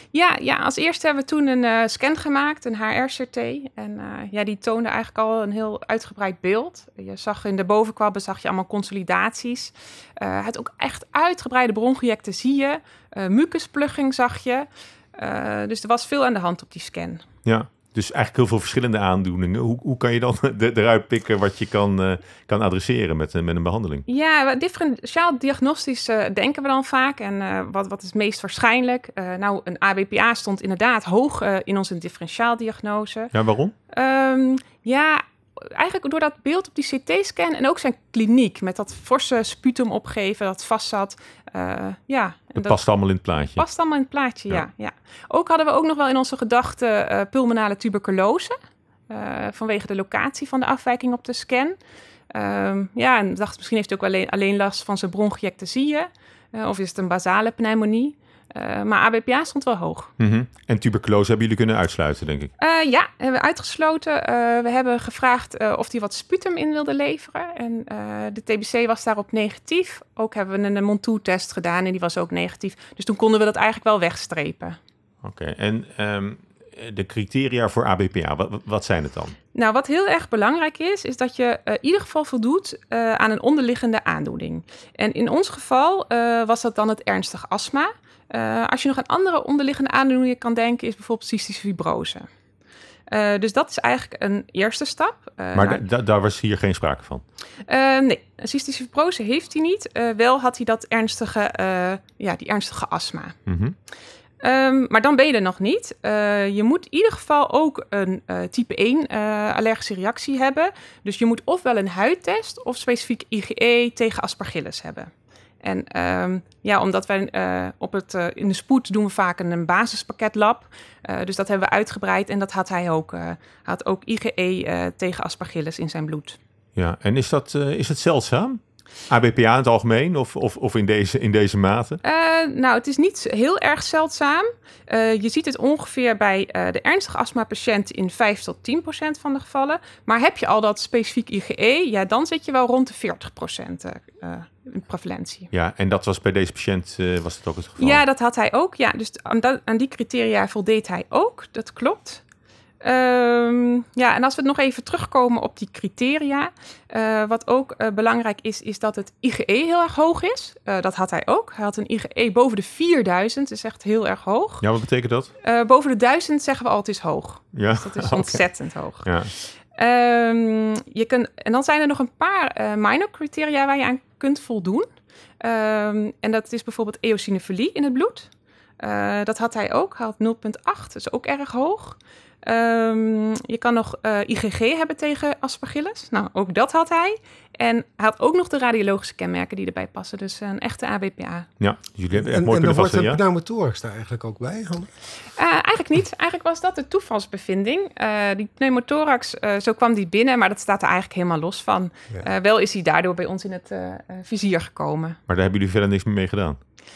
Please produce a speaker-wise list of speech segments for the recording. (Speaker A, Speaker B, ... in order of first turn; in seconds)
Speaker A: 0.1-17.2, 24.1-33.3, 33.9-48.5, 49.1-51.8, 52.3-60.1, 62.6-74.8, 79.5-92.3, 93.1-95.8, 97.7-103.4, 104.4-115.1, 115.6-126.4, 132.0-145.5, 147.8-152.2, 152.8-164.7, 165.4-174.9, 175.4-191.5, 195.3-205.2
Speaker B: 17.4-24.0, 33.3-33.7, 42.5-43.6, 60.2-62.5, 75.2-79.3, 95.5-97.2, 103.5-103.7, 126.8-132.0, 145.5-148.0, 164.6-165.3, 167.5-168.5, 169.0-169.3, 191.6-193.2, 205.3-206.6
Speaker C: 192.1-194.9